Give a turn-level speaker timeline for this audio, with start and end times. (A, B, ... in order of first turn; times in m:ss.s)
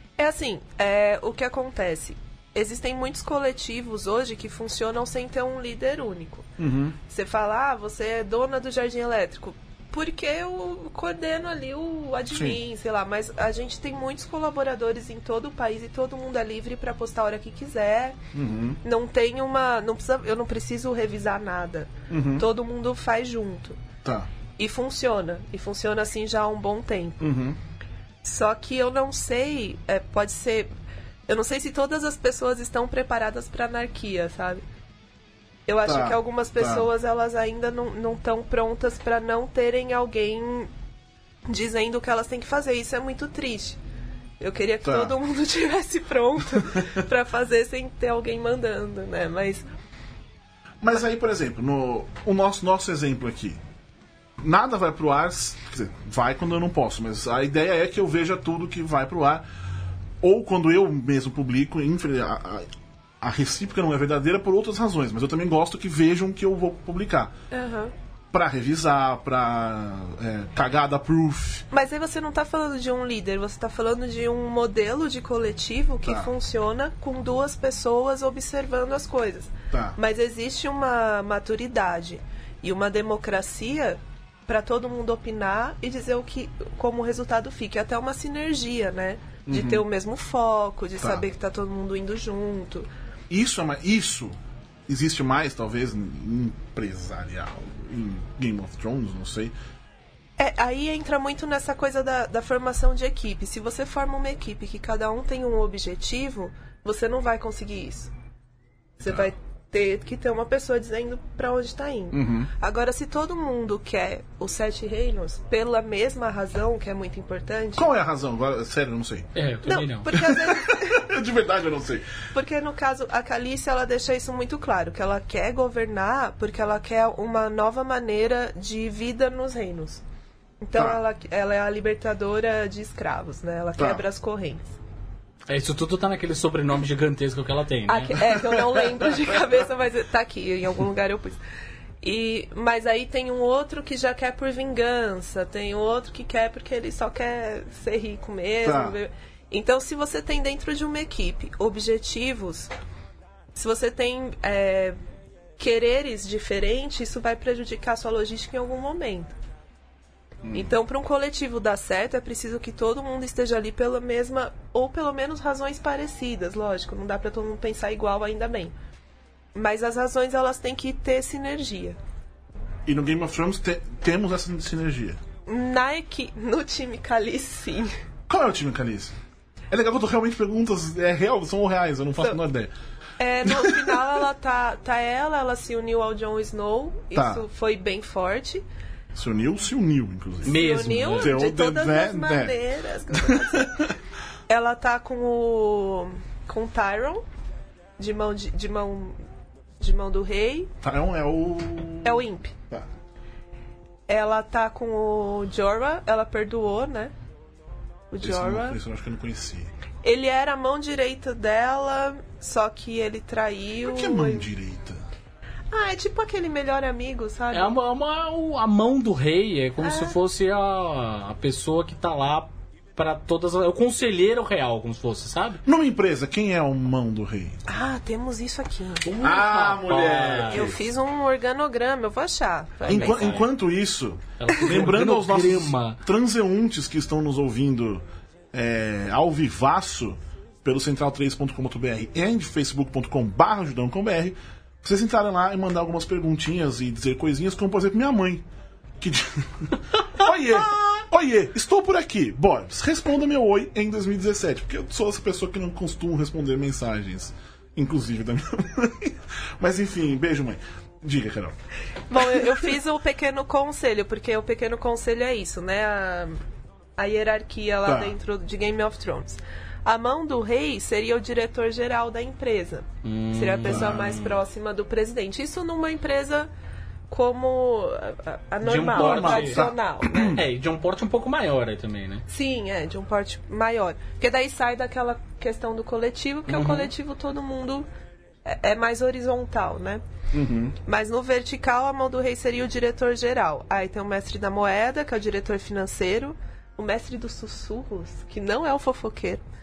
0:00.2-0:06.5 A
0:06.6-0:07.0 B
0:07.0-0:18.2 A
0:12.3-0:12.6 B
0:18.3-0:18.8 B
0:18.8-0:23.8 A
0:22.1-0:22.4 B
0:24.0-0:24.3 B
0:24.6-0:27.3 A
0:27.2-0:27.6 B
0:28.2-0:30.7 A
0:31.3-0:34.6 A
0:35.7-0:40.7 A
0:35.8-0:36.9 B
0:41.5-0:43.8 A
0:44.4-0:49.6 A
0:44.8-0:45.2 B
0:50.8-0:53.6 B
0:54.4-0:59.4 B
1:00.2-1:02.7 B
1:03.2-1:07.3 B
1:07.5-1:07.9 A
1:08.3-1:11.6 B
1:11.7-1:32.9 A
1:16.0-1:16.3 B
1:19.7-1:20.0 B
1:29.5-1:29.8 B
1:31.0-1:31.2 B
1:33.3-1:34.4 B
1:34.9-1:39.5 B
1:40.4-1:48.1 A
1:49.0-1:57.9 A
1:52.1-1:52.5 B
1:57.8-1:59.3 B
1:59.3-2:00.1 C
1:59.6-2:01.0 A
2:00.1-2:02.1 B
2:02.3-2:10.0 A
2:10.6-2:14.7 A
2:13.8-2:14.0 B
2:15.5-2:18.2 C
2:17.9-2:21.4 A
2:18.3-2:19.1 B
2:22.0-2:32.7 A
2:28.6-2:29.0 B
2:33.5-2:35.0 A
2:35.6-2:39.3 A
2:40.4-2:40.7 B
2:40.5-2:48.7 A
2:49.5-2:52.0 A
2:52.8-2:55.2 B
2:55.4-2:57.9 A
2:58.3-2:59.1 B
2:59.7-3:02.7 B
3:03.2-3:08.6 A
3:03.4-3:04.0 B
3:07.1-3:07.4 B
3:09.1-3:12.6 B
3:10.4-3:11.3 C
3:10.4-3:13.9 A
3:13.1-3:13.9 B
3:14.5-3:17.2 A
3:18.0-3:19.2 A
3:19.8-3:20.7 A
3:20.8-3:22.9 B
3:22.0-3:22.5 A
3:24.1-3:27.1 A
3:28.1-3:28.8 A
3:28.2-3:29.7 B
3:30.0-3:34.5 A
3:33.8-3:35.0 B
3:35.7-3:37.8 A
3:37.5-3:45.6 C
3:39.8-3:40.2 A
3:45.6-3:47.6 B
3:47.7-3:49.1 A
3:49.0-3:50.8 C
3:49.2-3:50.8 B
3:50.5-3:53.4 A
3:52.8-4:08.4 B
3:52.9-3:53.5 C
3:54.4-3:56.0 C
4:09.0-4:21.6 B
4:22.1-4:26.4 A
4:22.2-4:22.5 B
4:27.0-4:36.5 A
4:27.8-4:28.2 B
4:33.0-4:34.4 C
4:33.6-4:34.2 B
4:37.1-4:40.4 A
4:38.6-4:42.2 C
4:38.9-4:40.4 B
4:42.3-4:47.9 A
4:46.5-4:46.9 C
4:48.4-4:50.0 A
4:50.3-4:50.8 B
4:50.8-4:59.4 A